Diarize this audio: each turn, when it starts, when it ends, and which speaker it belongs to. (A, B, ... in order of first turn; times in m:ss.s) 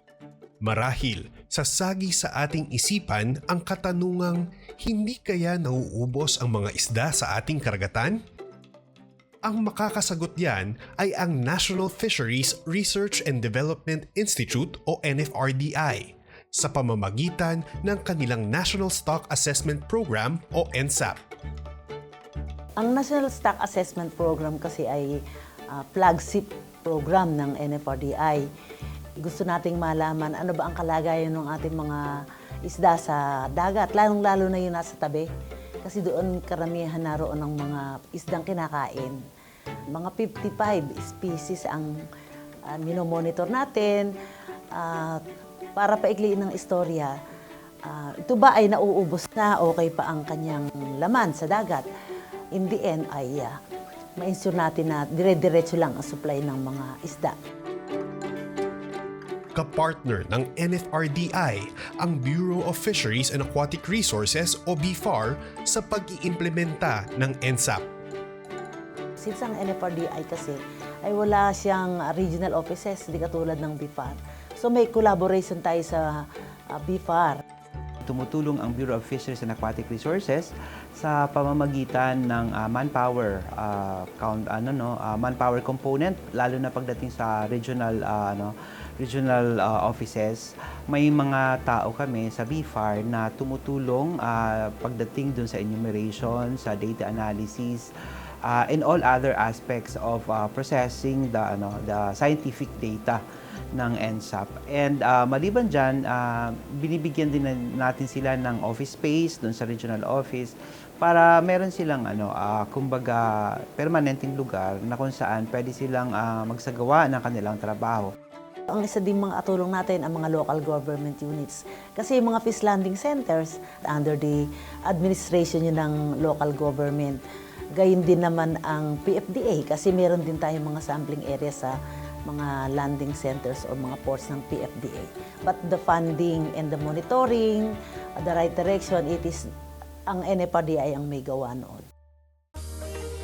0:00.6-0:08.2 A
0:09.4-0:21.2 A
0:22.8-0:28.5 B
0:29.2-0:35.3 B
0:35.8-0:39.2 B
0:39.9-0:41.9 B
0:42.7-0:44.1 B
0:44.7-0:45.2 B
0:45.8-0:47.2 B
0:47.8-0:51.9 B
0:52.5-0:53.6 B
0:54.2-0:57.4 B
0:59.6-1:07.8 A
1:09.2-1:17.4 B
1:18.0-1:37.9 C
1:38.4-1:43.2 C
1:43.7-1:58.1 C
1:58.7-2:07.2 B
2:07.8-2:19.5 B
2:20.1-2:21.9 B